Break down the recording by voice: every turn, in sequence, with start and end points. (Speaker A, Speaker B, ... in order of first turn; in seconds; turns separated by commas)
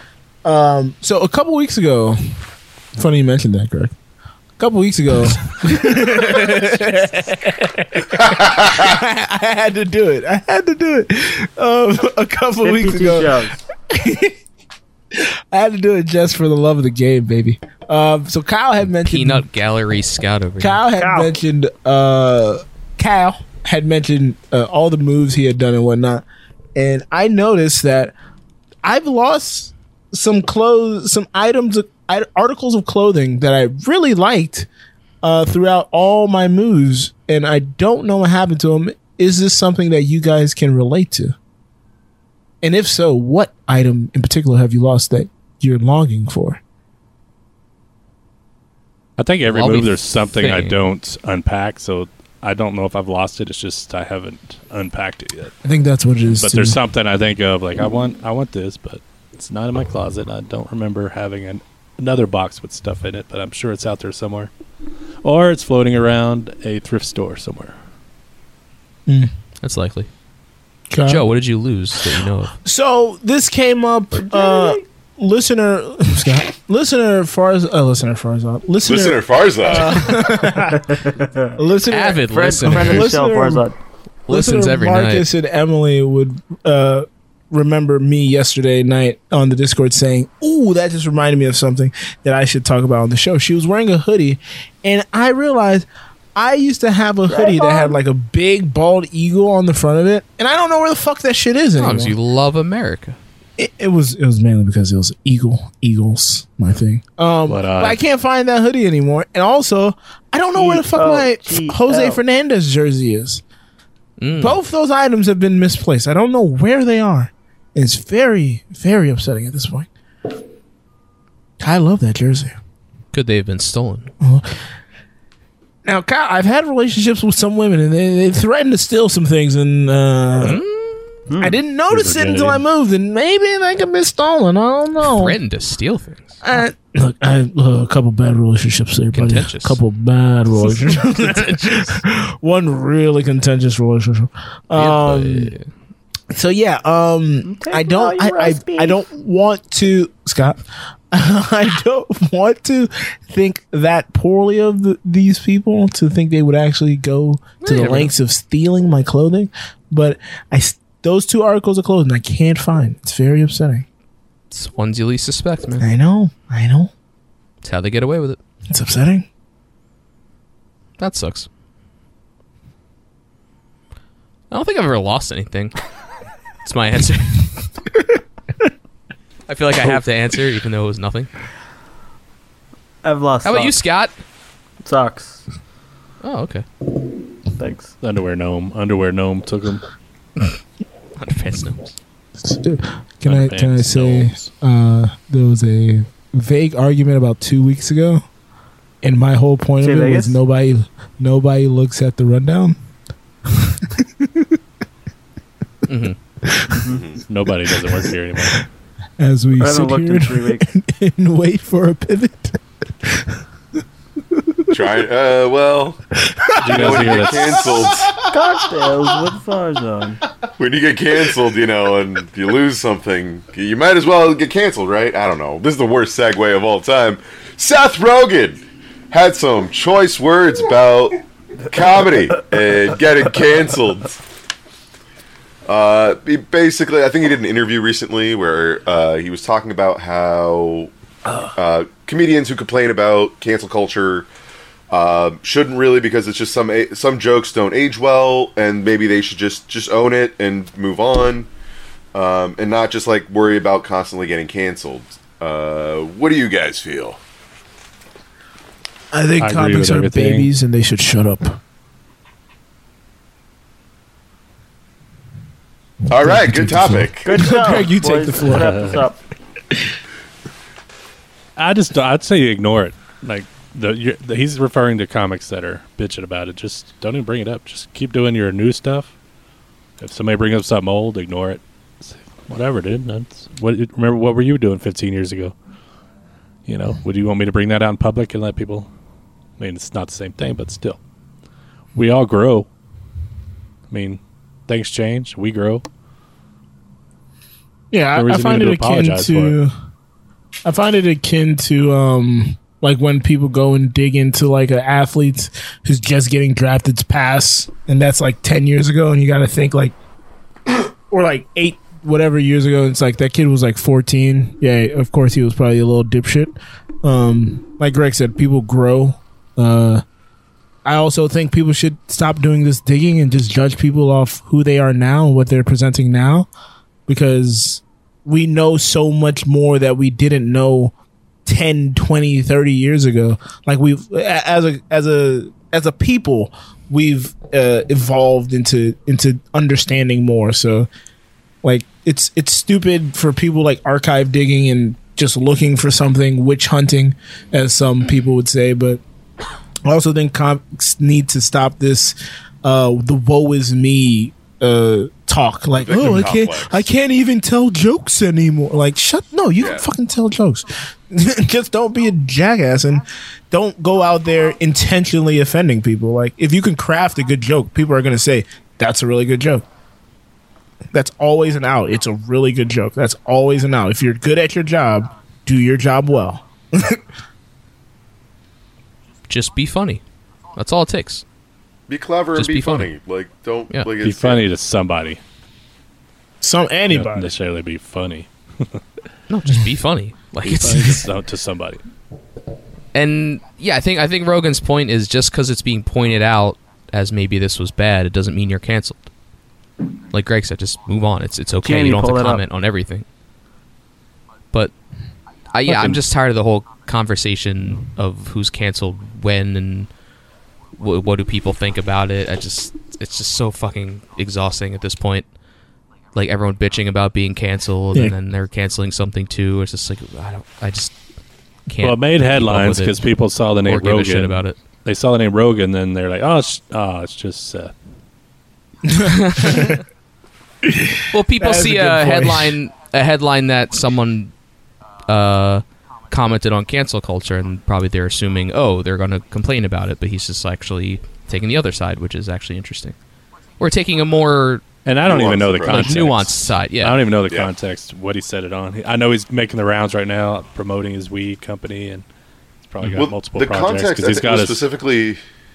Speaker A: 0.4-2.2, Speaker A: 3.0-3.9, Speaker A: 4.6-14.4, Speaker B: 12.6-13.6, Speaker A: 15.1-19.5, Speaker C: 18.8-20.8, Speaker A: 20.6-28.1, Speaker B: 21.0-21.3, Speaker A: 28.8-34.7, Speaker A: 35.2-41.3, Speaker A: 42.6-46.6, Speaker D: 49.2-55.5, Speaker C: 49.5-50.7, Speaker A: 55.6-56.8, Speaker D: 56.4-64.5, Speaker D: 65.2-67.7, Speaker A: 69.1-69.3, Speaker C: 69.6-70.1, Speaker A: 70.9-71.2, Speaker C: 71.1-72.5, Speaker A: 72.1-80.9, Speaker B: 74.2-74.8, Speaker E: 78.8-80.1, Speaker B: 80.5-81.5, Speaker A: 81.5-83.7, Speaker C: 81.9-83.2, Speaker B: 82.3-83.7, Speaker C: 84.3-85.2, Speaker A: 84.3-102.2, Speaker B: 97.3-98.0, Speaker C: 101.8-103.2, Speaker A: 103.6-113.4, Speaker D: 107.5-108.0, Speaker B: 110.5-112.2, Speaker C: 114.2-114.6, Speaker A: 114.4-119.9, Speaker A: 121.6-122.5, Speaker C: 123.1-124.1, Speaker A: 124.2-124.5, Speaker A: 125.8-130.6, Speaker C: 130.4-131.2, Speaker B: 131.3-131.6, Speaker A: 131.4-135.4, Speaker D: 131.9-132.6, Speaker C: 135.0-136.4, Speaker A: 136.4-145.5, Speaker C: 139.1-139.8, Speaker C: 140.5-142.0, Speaker C: 144.7-145.7, Speaker A: 146.3-163.8, Speaker B: 147.4-149.0, Speaker C: 157.6-158.1, Speaker C: 164.5-165.8, Speaker A: 165.8-166.9, Speaker C: 167.6-168.4, Speaker A: 168.7-169.3, Speaker C: 171.0-171.5, Speaker C: 174.5-175.7, Speaker C: 176.6-177.7, Speaker C: 179.5-181.3, Speaker B: 183.0-183.8, Speaker C: 183.4-184.1, Speaker B: 184.8-185.4, Speaker C: 186.2-186.6, Speaker B: 187.6-187.9, Speaker D: 188.0-189.8, Speaker C: 191.2-191.9, Speaker A: 192.4-198.2, Speaker D: 193.2-194.5, Speaker A: 199.0-202.8, Speaker B: 199.8-200.4, Speaker A: 203.5-204.5, Speaker C: 205.9-206.2, Speaker A: 206.4-206.9, Speaker E: 206.9-207.2, Speaker D: 207.3-208.6, Speaker A: 209.2-213.4, Speaker B: 209.6-210.7, Speaker A: 214.3-214.7, Speaker E: 214.7-216.0, Speaker A: 216.2-218.0, Speaker D: 216.6-217.7, Speaker E: 216.6-218.2, Speaker B: 218.1-220.2, Speaker E: 220.6-234.2, Speaker E: 235.7-244.3, Speaker E: 244.9-251.5, Speaker E: 252.1-257.2, Speaker A: 259.1-261.6, Speaker D: 259.4-260.5, Speaker E: 266.1-267.4, Speaker A: 266.1-268.9, Speaker B: 267.2-269.2, Speaker D: 268.4-268.9, Speaker D: 271.6-279.1, Speaker D: 280.0-285.5, Speaker D: 286.7-288.9, Speaker D: 289.6-291.0, Speaker D: 291.9-292.7, Speaker D: 293.9-295.8, Speaker A: 297.9-299.7, Speaker D: 298.1-299.6, Speaker A: 300.6-309.9, Speaker A: 310.7-320.0, Speaker A: 320.8-326.5, Speaker A: 327.1-330.9, Speaker A: 331.4-340.9, Speaker A: 341.6-349.0, Speaker A: 349.8-369.6, Speaker E: 355.8-356.9, Speaker E: 359.6-359.9, Speaker A: 370.9-377.0, Speaker C: 379.3-380.0, Speaker C: 380.5-381.2, Speaker E: 381.9-384.4, Speaker C: 382.3-382.9, Speaker D: 384.0-385.2, Speaker A: 386.4-387.3, Speaker D: 386.9-388.8, Speaker C: 389.3-391.1, Speaker D: 390.4-391.8, Speaker C: 392.9-399.1, Speaker C: 400.1-403.1, Speaker B: 401.6-402.4, Speaker C: 405.5-409.9, Speaker D: 405.7-406.0, Speaker C: 410.8-415.2, Speaker C: 416.1-420.9, Speaker C: 421.7-423.0, Speaker D: 421.8-427.7, Speaker C: 423.6-424.6, Speaker A: 428.9-429.8, Speaker C: 429.0-429.8, Speaker A: 430.6-432.6, Speaker C: 431.1-434.3, Speaker C: 435.1-442.9, Speaker C: 443.6-444.6, Speaker D: 444.8-452.0, Speaker E: 445.0-446.1, Speaker C: 445.6-447.0, Speaker D: 452.7-454.6, Speaker E: 452.9-455.2